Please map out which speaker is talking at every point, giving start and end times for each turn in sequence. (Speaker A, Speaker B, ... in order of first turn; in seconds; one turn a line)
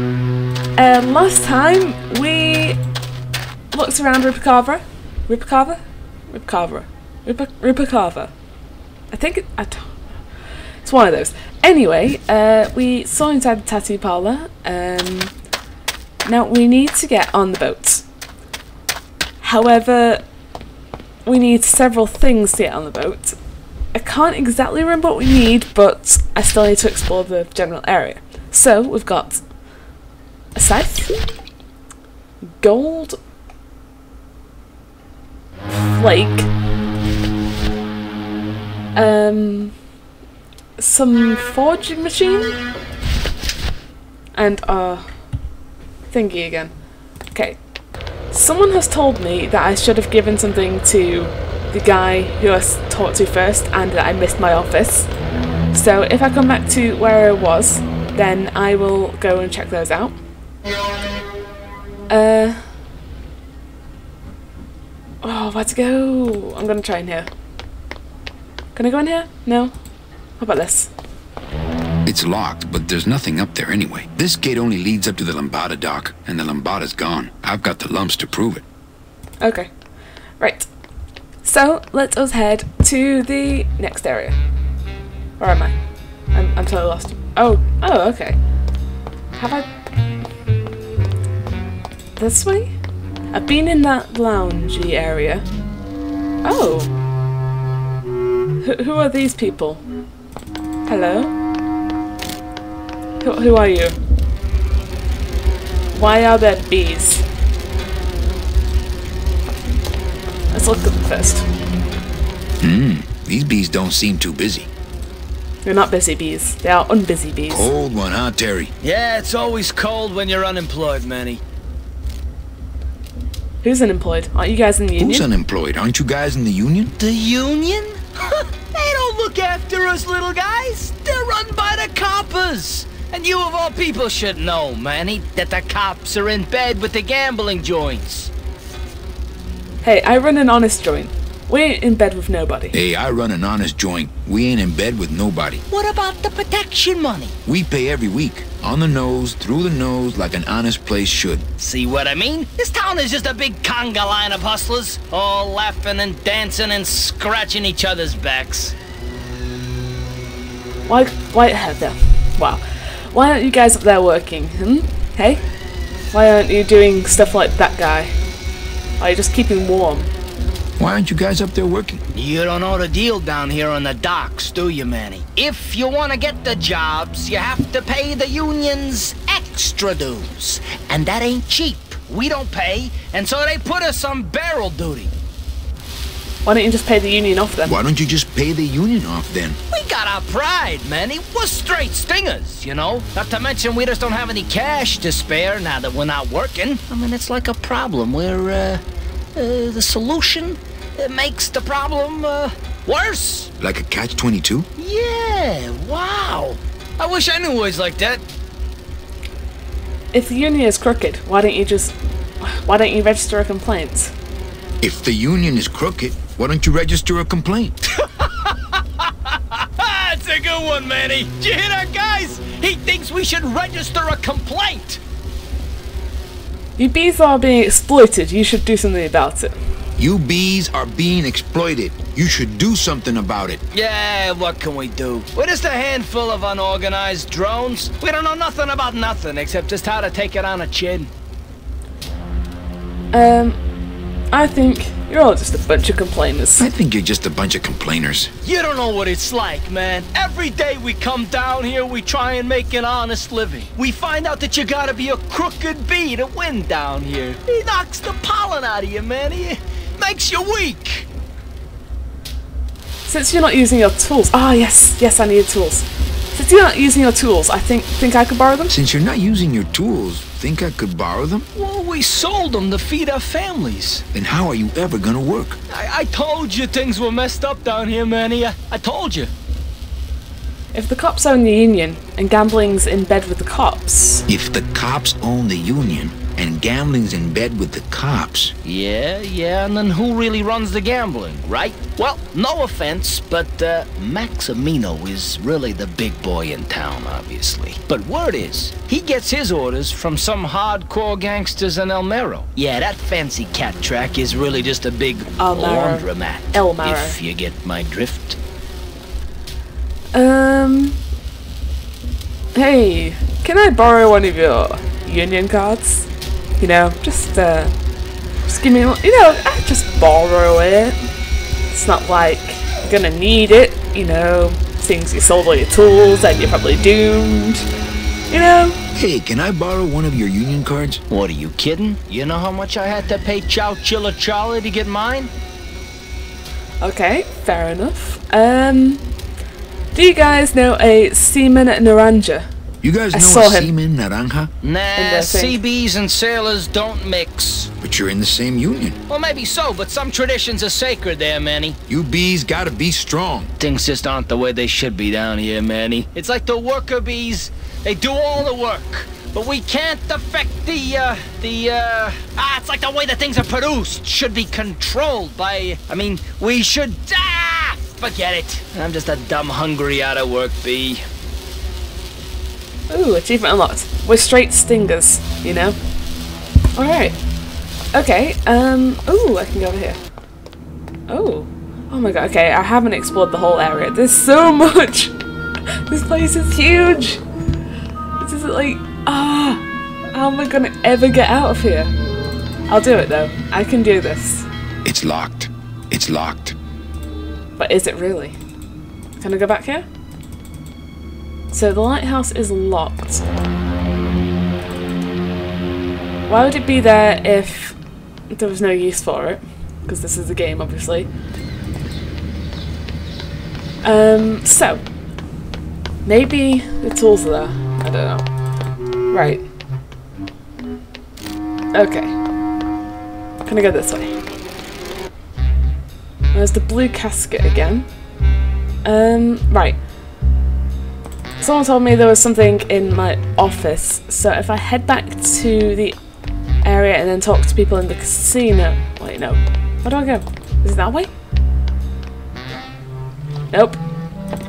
Speaker A: 0.8-2.8
Speaker A: 3.7-8.3
Speaker A: 9.1-9.9
Speaker A: 10.8-15.3
Speaker A: 16.2-18.1
Speaker A: 19.4-20.3
Speaker A: 21.2-23.4
Speaker A: 23.9-29.5
Speaker A: 30.5-31.2
Speaker A: 32.6-33.2
Speaker A: 35.7-36.5
Speaker A: 39.0-39.8
Speaker A: 40.8-42.6
Speaker A: 44.3-45.1
Speaker A: 46.1-46.8
Speaker A: 47.3-47.6
Speaker A: 48.3-55.1
Speaker A: 55.7-60.2
Speaker A: 62.1-62.6
Speaker A: 65.2-67.3
Speaker A: 68.8-69.7
Speaker A: 70.4-70.9
Speaker B: 72.0-78.6
Speaker A: 79.4-79.7
Speaker A: 80.4-80.7
Speaker A: 81.4-84.4
Speaker A: 85.4-85.8
Speaker A: 86.3-88.4
Speaker A: 89.4-89.7
Speaker A: 92.2-92.7
Speaker A: 93.3-95.5
Speaker A: 96.4-96.9
Speaker A: 98.6-99.8
Speaker A: 100.9-101.3
Speaker A: 103.2-104.0
Speaker A: 105.9-107.2
Speaker A: 110.5-111.5
Speaker B: 112.6-114.7
Speaker A: 115.6-117.7
Speaker B: 117.5-118.7
Speaker C: 118.8-121.4
Speaker A: 123.6-125.3
Speaker B: 125.0-126.9
Speaker C: 127.0-138.3
Speaker A: 139.8-142.8
Speaker B: 142.7-145.6
Speaker C: 145.7-147.3
Speaker B: 147.5-151.4
Speaker C: 151.6-158.7
Speaker A: 160.9-165.4
Speaker A: 166.1-168.2
Speaker A: 169.0-170.1
Speaker B: 170.8-172.0
Speaker C: 172.1-185.1
Speaker A: 186.4-187.8
Speaker B: 187.6-189.6
Speaker C: 189.7-198.8
Speaker C: 199.4-203.5
Speaker B: 203.6-204.7
Speaker C: 204.8-208.2
Speaker A: 210.1-214.1
Speaker B: 214.8-217.8
Speaker C: 218.0-225.0
Speaker A: 226.8-229.6
Speaker B: 230.0-233.6
Speaker C: 233.7-241.1
Speaker A: 243.1-243.6
Speaker A: 244.3-246.7
Speaker B: 246.6-248.3
Speaker C: 248.4-261.1
Speaker A: 263.1-268.7
Speaker B: 268.7-271.4
Speaker C: 271.6-274.1
Speaker B: 274.1-275.6
Speaker C: 275.7-279.3
Speaker A: 280.7-284.2
Speaker B: 284.3-288.5
Speaker C: 288.6-308.4
Speaker A: 305.3-307.2
Speaker A: 310.1-311.0
Speaker A: 312.5-317.7
Speaker A: 318.4-321.0
Speaker A: 321.7-327.7
Speaker A: 328.3-328.8
Speaker B: 328.9-331.0
Speaker C: 331.1-335.3
Speaker A: 336.8-339.0
Speaker A: 339.9-342.5
Speaker B: 342.8-344.5
Speaker A: 343.1-343.7
Speaker C: 344.6-347.7
Speaker A: 344.9-345.6
Speaker B: 347.8-349.0
Speaker C: 349.1-351.8
Speaker B: 351.9-353.5
Speaker C: 353.6-371.0
Speaker A: 372.9-375.8
Speaker A: 376.7-377.2
Speaker A: 377.9-380.0
Speaker A: 381.1-385.1
Speaker A: 385.8-387.2
Speaker A: 388.2-391.9
Speaker A: 392.7-394.5
Speaker B: 394.8-396.6
Speaker A: 397.6-398.4
Speaker A: 399.2-399.9
Speaker A: 401.5-403.2
Speaker A: 406.3-407.8
Speaker A: 408.3-411.1
Speaker A: 413.8-414.8
Speaker A: 416.1-418.3
Speaker A: 419.1-419.4
Speaker A: 421.7-422.1
Speaker A: 423.4-424.2
Speaker A: 426.3-427.9
Speaker A: 428.8-429.8
Speaker A: 431.4-436.0
Speaker A: 436.6-441.1
Speaker A: 443.5-443.8